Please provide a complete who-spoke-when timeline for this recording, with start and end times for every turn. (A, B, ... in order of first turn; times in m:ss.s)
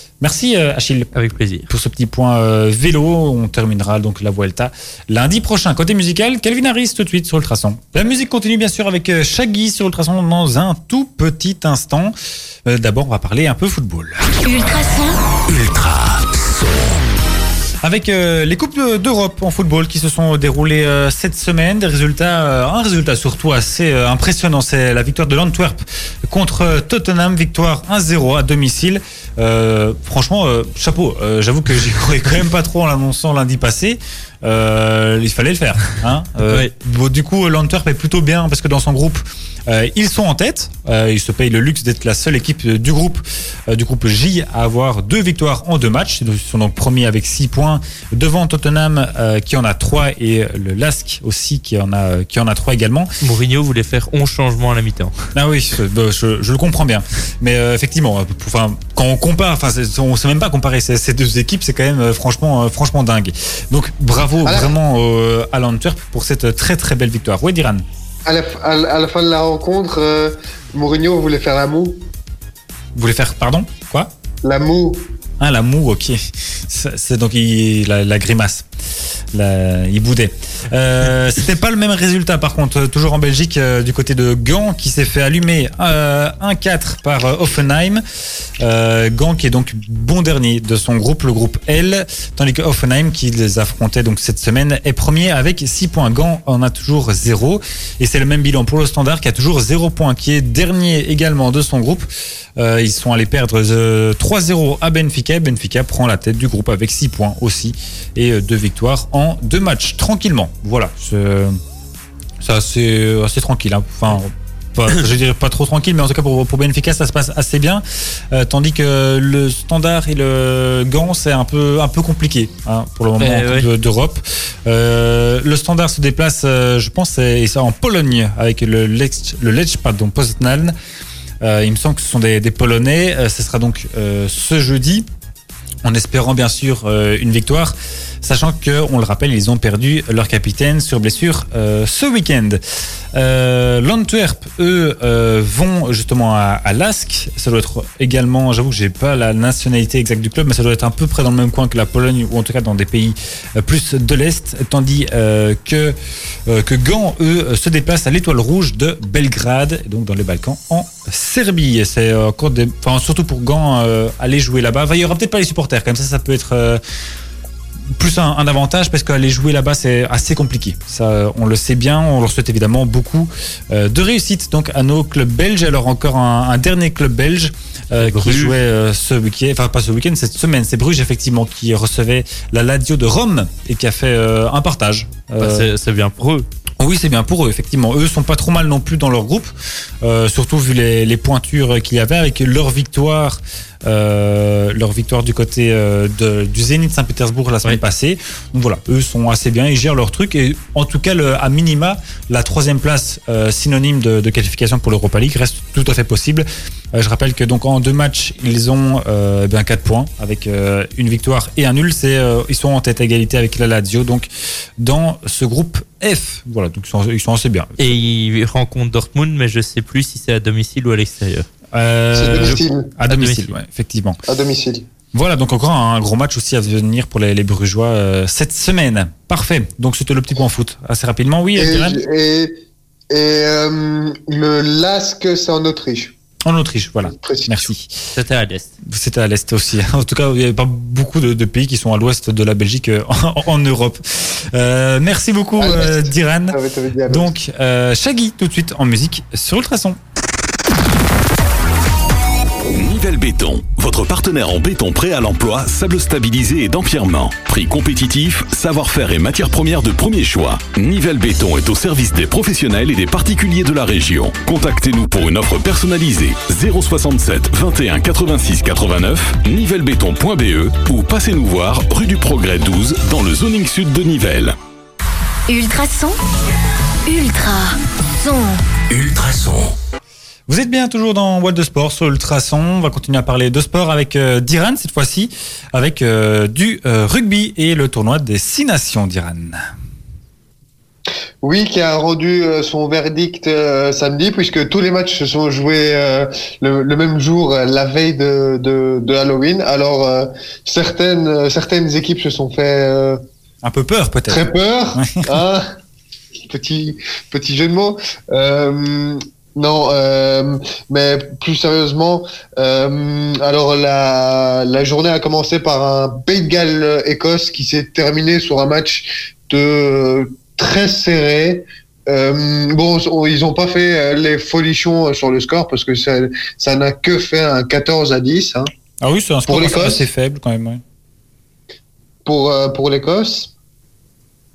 0:00.2-0:01.1 A
0:01.1-0:01.7 B
0:01.7-0:14.2 A
0:14.4-0:15.2 C
0:15.5-0:17.0 D
0:17.8-0:53.1 A
0:53.2-0:55.1 B
0:55.3-1:07.8 A
1:04.4-1:04.7 E
1:08.2-1:12.0 E
1:12.9-1:14.1 A
1:14.4-1:15.1 E
1:15.4-1:18.7 A
1:19.3-1:28.0 A
1:28.6-1:51.6 A
1:52.4-2:10.7 A
2:03.2-2:03.7 B
2:11.4-2:15.0 A
2:15.8-2:22.6 A
2:23.1-2:35.9 A
2:36.4-2:46.8 A
2:47.9-3:05.6 A
2:57.9-2:58.6 B
3:05.4-3:06.4 B
3:06.8-3:37.8 A
3:37.8-3:41.5 B
3:41.7-3:44.2 A
3:42.1-3:42.9 E
3:43.1-3:43.5 B
3:44.3-3:44.8 E
3:45.1-3:52.0 A
3:51.6-3:52.6 E
3:53.1-3:56.1 E
3:56.4-3:58.1 A
3:57.0-3:57.7 E
3:58.1-3:58.7 B
3:58.8-4:06.6 A
4:05.6-4:07.3 E
4:07.1-4:10.0 A
4:12.7-4:34.5 F
4:35.5-4:36.2 C
4:37.0-4:38.6 C
4:38.9-4:39.7 D
4:40.5-4:49.6 A
4:51.4-5:03.2 E
5:03.6-5:05.4 A
5:04.3-5:05.7 E
5:06.5-5:28.7 E
5:29.0-5:30.8 A
5:29.5-5:30.0 E
5:32.2-5:33.5 E